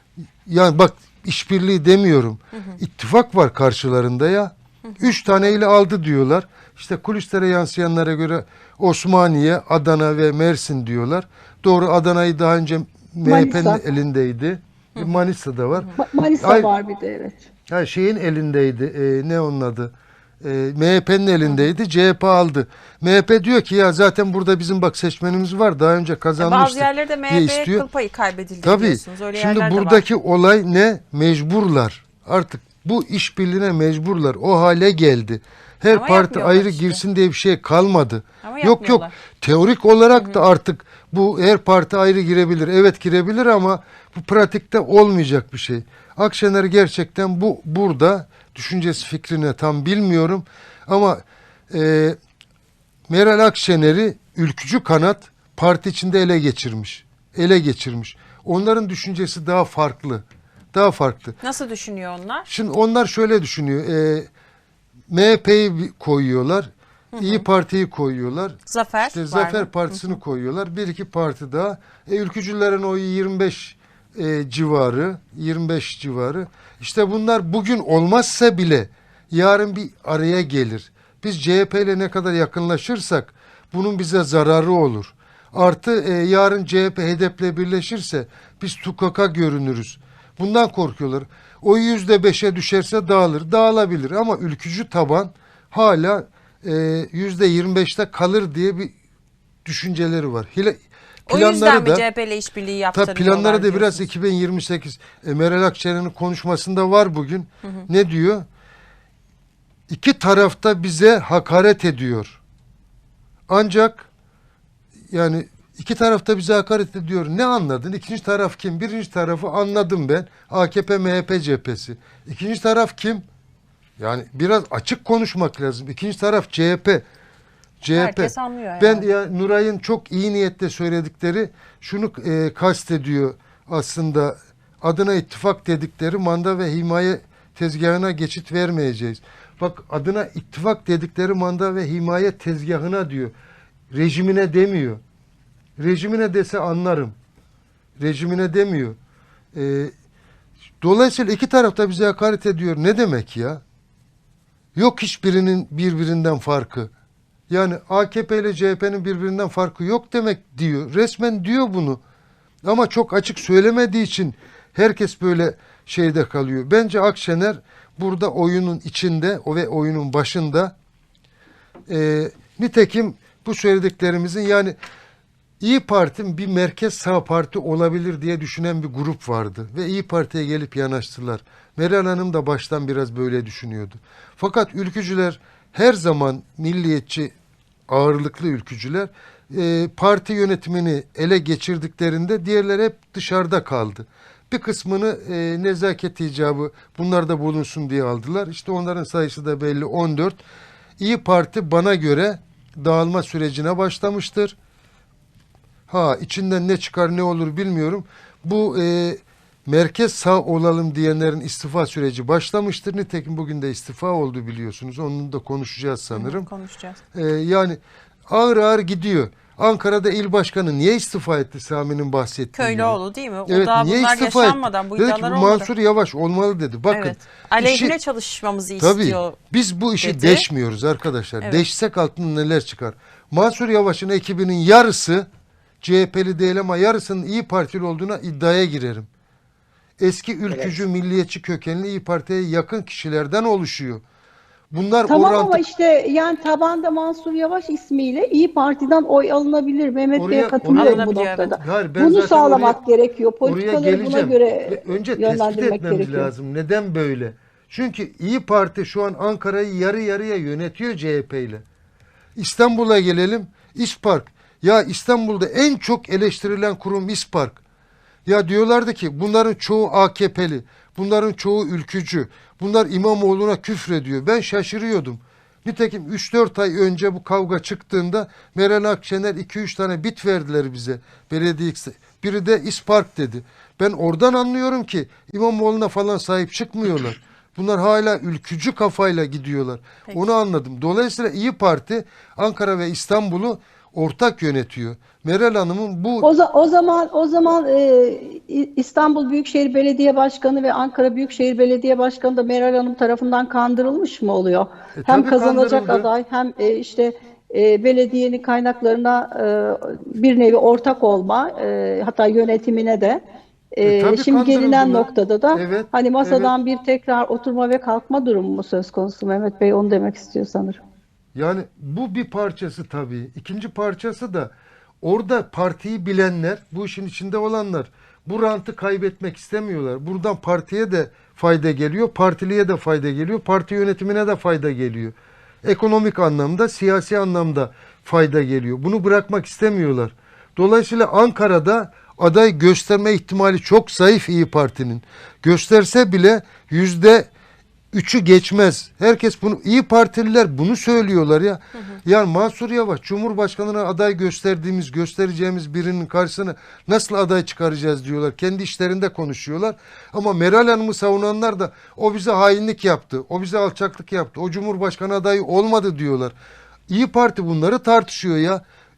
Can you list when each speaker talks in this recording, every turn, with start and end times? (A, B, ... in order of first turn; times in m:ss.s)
0:00.5-0:16.7 A
0:04.8-0:05.1 B
0:13.2-0:13.8 C
0:16.0-0:17.4 C
0:17.7-0:27.9 A
0:21.4-0:21.7 B
0:26.4-0:30.0 B
0:28.6-0:52.2 A
0:35.9-0:37.0 B
0:38.4-0:39.2 B
0:53.1-1:01.4 A
1:01.4-1:02.5 B
1:02.5-1:04.3 A
1:05.1-1:38.9 A
1:07.2-1:07.5 B
1:08.7-1:10.2 B
1:39.6-1:40.8 A
1:41.3-1:42.0 A
1:41.3-1:44.1 B
1:42.9-1:48.4 A
1:49.9-1:52.4 A
1:53.5-1:54.1 A
1:55.1-2:03.2 A
2:04.0-2:07.0 A
2:07.8-2:23.3 A
2:07.9-2:09.1 B
2:23.9-2:25.0 A
2:25.8-2:27.2 A
2:28.0-2:29.0 A
2:29.5-2:29.9 A
2:30.8-2:33.6 A
2:34.8-2:36.9 A
2:37.5-2:42.0 A
2:42.6-2:50.7 A
2:51.9-2:54.8 A
2:55.6-3:07.3 A
3:07.9-3:20.4 A
3:21.0-3:24.6 A
3:25.9-3:36.5 A
3:36.1-3:37.0 B
3:37.1-3:48.0 A
3:42.6-3:45.7 B
3:46.9-3:49.4 B
3:48.8-3:55.3 A
3:50.0-3:50.4 B
3:55.8-3:59.1 A
4:00.0-4:04.0 A
4:04.7-4:05.6 A
4:05.1-4:16.3 C
4:10.2-4:12.8 A
4:10.8-4:11.6 B
4:13.4-4:21.6 A
4:22.4-4:27.6 A
4:28.3-4:56.3 A
4:56.2-5:13.2 C
5:05.0-5:06.1 A
5:13.7-5:20.8 C
5:13.8-5:16.5 A
5:21.4-5:24.5 A
5:25.0-5:47.3 A
5:47.9-6:06.3 A
6:06.9-6:08.6 A